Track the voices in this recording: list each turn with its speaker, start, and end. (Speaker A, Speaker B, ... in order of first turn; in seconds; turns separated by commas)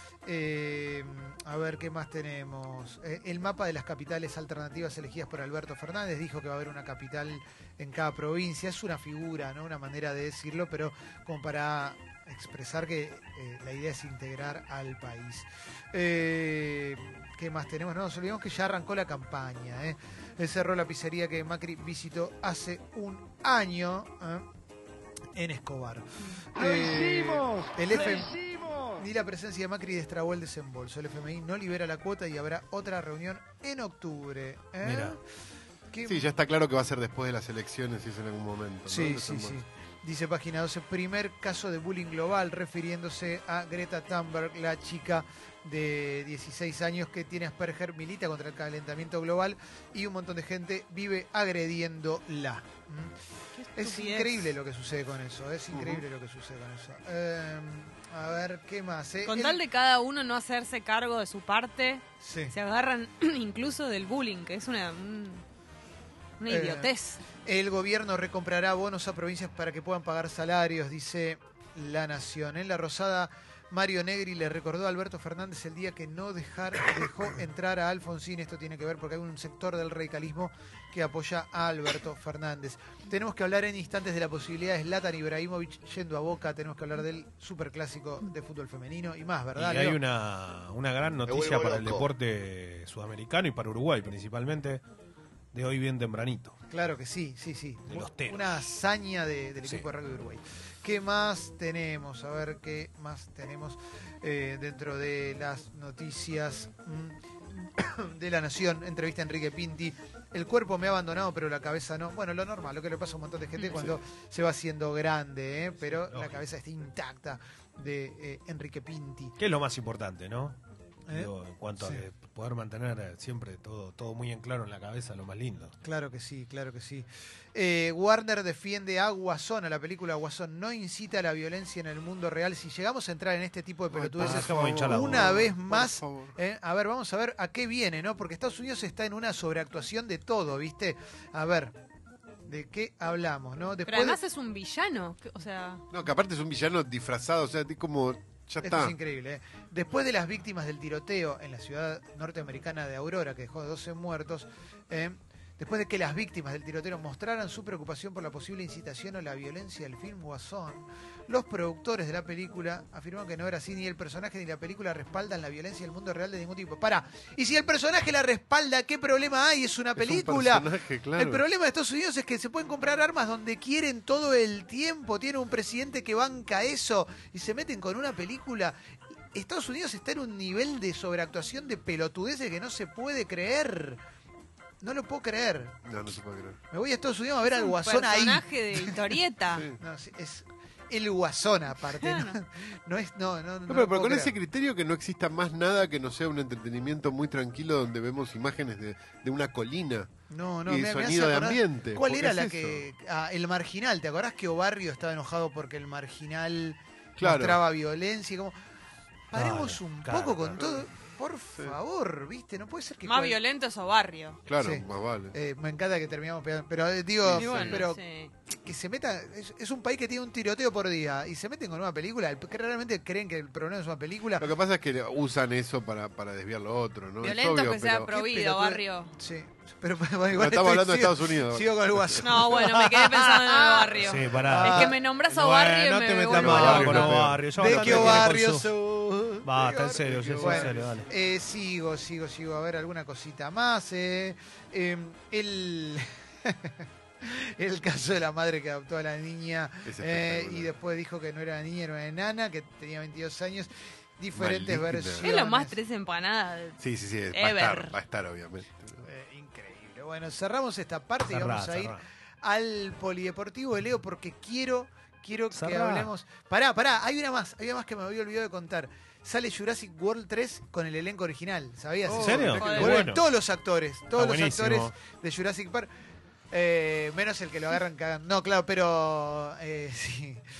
Speaker A: 0.2-24.4, Speaker A: 25.3-28.3, Speaker A: 28.9-35.2, Speaker B: 34.8-35.1, Speaker A: 35.9-36.3, Speaker C: 36.0-39.6, Speaker A: 38.9-53.1, Speaker D: 53.5-54.5, Speaker A: 53.8-59.6, Speaker C: 55.7-56.0, Speaker D: 59.2-65.4, Speaker A: 62.2-62.5, Speaker D: 66.4-67.2, Speaker A: 66.5-66.9, Speaker A: 67.4-90.0, Speaker B: 89.5-94.8, Speaker C: 91.2-92.1, Speaker B: 95.5-96.5, Speaker A: 96.7-119.3, Speaker B: 97.9-98.6, Speaker B: 115.8-116.5, Speaker B: 119.4-120.6, Speaker A: 121.1-122.0, Speaker B: 121.1-125.7, Speaker A: 125.8-141.7, Speaker C: 133.9-136.3, Speaker B: 134.2-135.5, Speaker A: 142.4-144.2, Speaker D: 143.9-145.8, Speaker C: 145.9-148.9, Speaker A: 148.6-178.8, Speaker C: 170.0-171.4, Speaker A: 179.3-184.0, Speaker A: 184.8-185.8, Speaker C: 185.8-186.6, Speaker A: 186.7-188.9, Speaker D: 187.4-189.7, Speaker A: 189.8-194.3, Speaker D: 192.0-192.3, Speaker C: 193.7-200.1, Speaker A: 200.3-208.5, Speaker C: 200.7-202.8, Speaker C: 207.2-207.6, Speaker A: 209.3-213.4, Speaker B: 209.3-210.6, Speaker D: 213.0-214.4, Speaker C: 214.4-215.3, Speaker A: 214.6-218.0, Speaker C: 217.2-217.9, Speaker D: 217.3-218.3, Speaker A: 218.6-224.5, Speaker C: 224.4-228.1, Speaker D: 227.2-229.1, Speaker A: 228.1-234.9, Speaker C: 230.3-232.3, Speaker D: 232.2-237.2, Speaker B: 233.9-238.7, Speaker C: 236.3-238.2, Speaker A: 236.3-255.8, Speaker B: 239.4-241.1, Speaker C: 240.2-240.7, Speaker C: 249.9-250.7, Speaker C: 254.3-255.3, Speaker D: 255.2-256.8, Speaker C: 256.8-259.0, Speaker D: 257.3-257.9, Speaker A: 259.0-275.9, Speaker B: 261.3-262.0, Speaker B: 265.5-266.1, Speaker C: 272.0-272.6, Speaker B: 272.1-273.2, Speaker D: 272.6-273.1, Speaker B: 274.1-275.0, Speaker A: 276.5-280.4